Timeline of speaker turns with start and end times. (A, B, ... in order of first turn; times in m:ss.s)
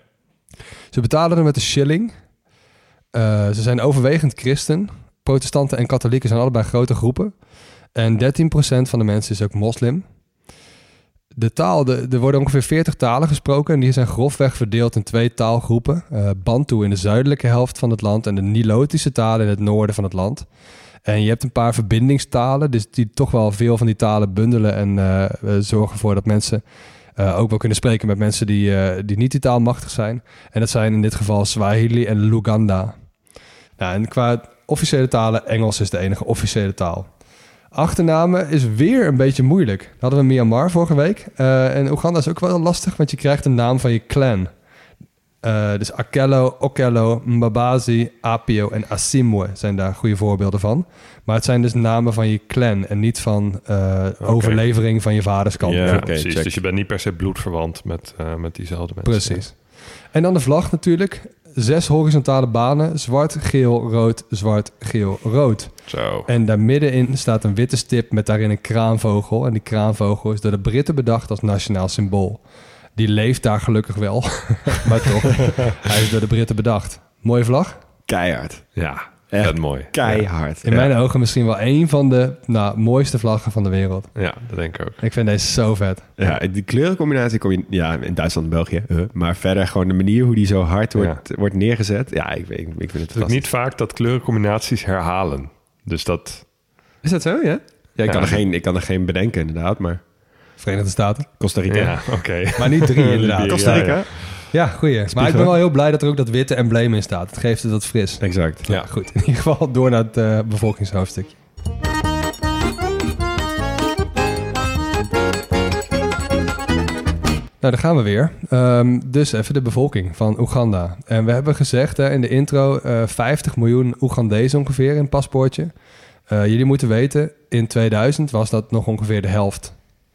0:00.9-0:02.1 A
0:03.1-0:07.3 A
0:07.9-0:10.0 A
0:11.3-0:20.5 A
0:21.0-0:26.6 A
0:27.2-0:33.0 A
0:33.8-0:37.1 A
0:37.7-0:44.5 A
0:45.4-0:56.1 A
0:54.2-0:54.6 B
0:55.6-0:56.6 C
0:55.8-0:59.4 B
0:59.0-1:12.4 A
1:05.9-1:06.3 B
1:13.0-1:17.8 A
1:18.1-1:20.9 C
1:18.8-1:20.2 B
1:20.6-1:24.1 A
1:24.2-1:25.0 B
1:25.0-1:26.1 A
1:26.2-1:33.4 C
1:33.1-1:36.4 B
1:37.0-1:40.0 C
1:38.0-1:38.4 B
1:40.6-1:41.3 A
1:41.4-1:42.0 C
1:41.7-1:44.4 B
1:42.6-1:43.9 A
1:43.5-1:44.1 C
1:44.5-1:51.3 A
1:45.1-1:45.5 C
1:48.2-1:48.8 C
1:57.6-2:05.7 A
2:06.3-2:09.8 A